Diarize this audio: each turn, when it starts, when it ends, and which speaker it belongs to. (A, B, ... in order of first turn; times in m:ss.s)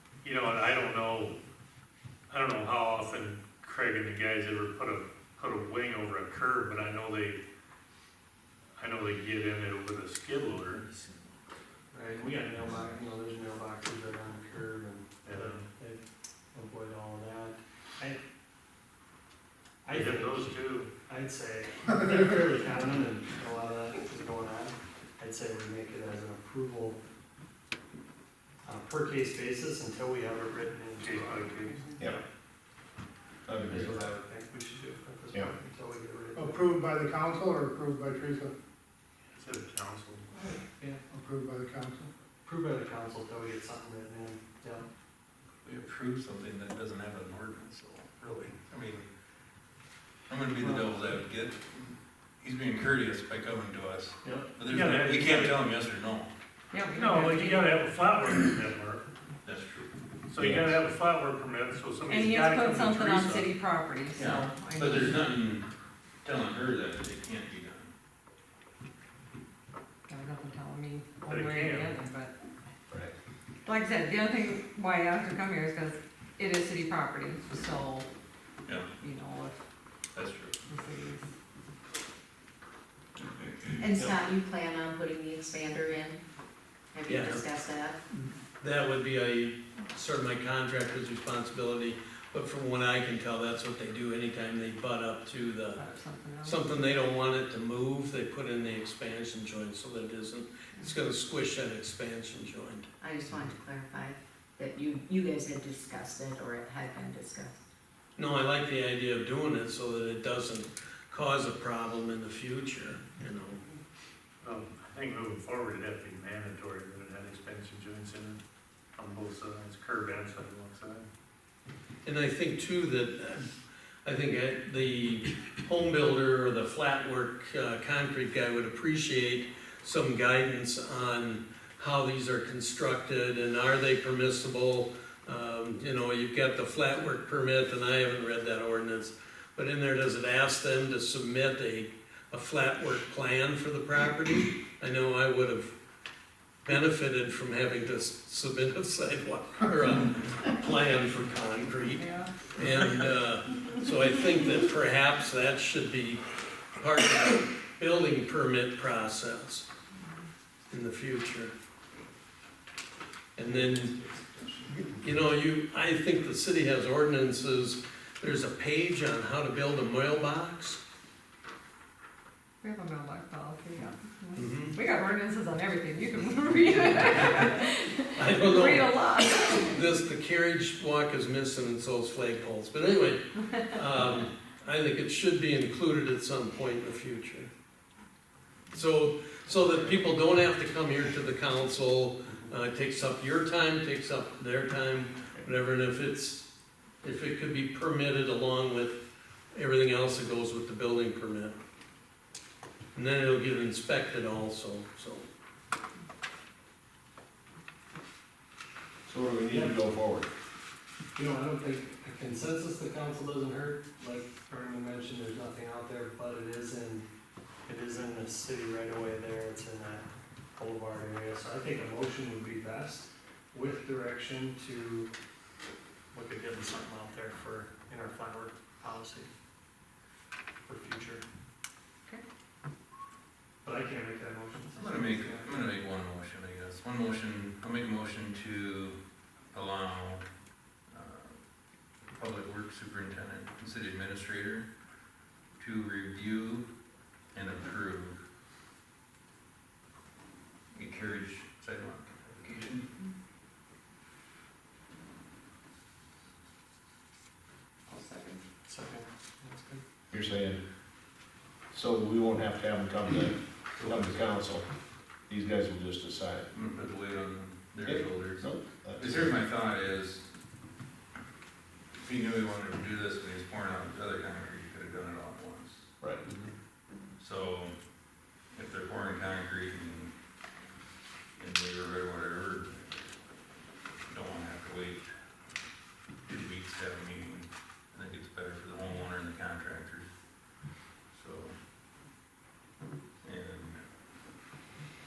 0:00.2-0:01.4 A
0:02.3-0:07.4 A
0:08.8-0:10.9 A
0:11.9-0:16.0 B
0:15.2-0:15.7 A
0:16.5-0:18.2 B
0:19.8-0:27.0 B
0:19.9-0:20.9 A
0:28.6-0:32.2 B
0:31.0-0:31.9 A
0:33.4-0:34.1 C
0:33.6-0:36.9 B
0:36.3-0:38.5 D
0:39.3-0:40.3 A
0:40.8-0:41.0 B
0:41.1-0:42.1 D
0:42.4-0:44.8 B
0:45.6-0:48.1 E
0:48.2-0:48.5 A
0:48.7-0:49.1 E
0:50.3-0:56.3 E
0:50.6-0:50.8 B
0:54.2-0:54.6 B
0:54.7-0:55.6 A
0:56.7-0:57.9 F
0:56.9-0:59.0 A
0:59.4-0:59.9 E
1:00.3-1:03.5 A
1:00.4-1:00.7 C
1:02.0-1:05.3 F
1:04.1-1:05.7 E
1:06.2-1:07.9 E
1:10.1-1:12.3 F
1:11.3-1:12.0 A
1:13.6-1:18.1 F
1:19.0-1:19.6 F
1:20.1-1:20.5 E
1:20.7-1:21.3 F
1:23.2-1:24.1 E
1:23.8-1:26.2 G
1:26.9-1:28.0 G
1:27.1-1:27.4 H
1:28.1-1:35.8 H
1:35.8-1:36.7 F
1:36.4-1:42.9 H
1:43.0-1:47.6 G
1:48.2-1:53.6 H
1:54.4-1:58.4 A
1:59.0-2:01.0 A
2:02.0-2:03.5 H
2:04.0-2:25.7 H
2:26.6-2:36.2 H
2:32.0-2:32.3 F
2:36.7-2:39.6 H
2:40.7-2:41.5 H
2:43.4-2:43.9 H
2:43.5-2:44.7 E
2:44.7-2:50.8 H
2:52.6-2:59.8 F
2:54.4-2:54.8 H
2:58.1-3:07.5 H
3:08.7-3:16.4 H
3:17.0-3:19.0 H
3:19.5-3:21.6 H
3:22.9-3:25.2 H
3:29.0-3:30.3 C
3:29.5-3:29.8 B
3:31.1-3:37.0 B
3:37.6-3:40.0 B
3:40.6-3:45.1 B
3:46.1-3:49.3 B
3:50.6-3:51.2 B
3:53.6-3:55.7 B
3:54.7-3:59.0 E
3:59.5-4:00.2 E
4:00.9-4:01.4 E
4:02.1-4:04.7 E
4:05.6-4:06.7 E
4:07.3-4:08.2 E
4:10.7-4:12.8 E
4:17.9-4:18.4 F
4:18.6-4:19.8 B
4:20.1-4:20.6 C
4:21.7-4:24.6 C
4:23.8-4:24.2 E
4:25.3-4:26.5 C
4:26.5-4:30.2 E
4:27.8-4:29.4 C
4:32.0-4:35.9 E
4:36.0-4:36.2 C
4:37.2-4:37.7 E
4:38.5-4:40.1 E
4:41.4-4:42.9 E
4:44.1-4:45.0 E
4:46.2-4:50.1 E
4:51.1-4:51.5 E
4:53.2-4:53.8 E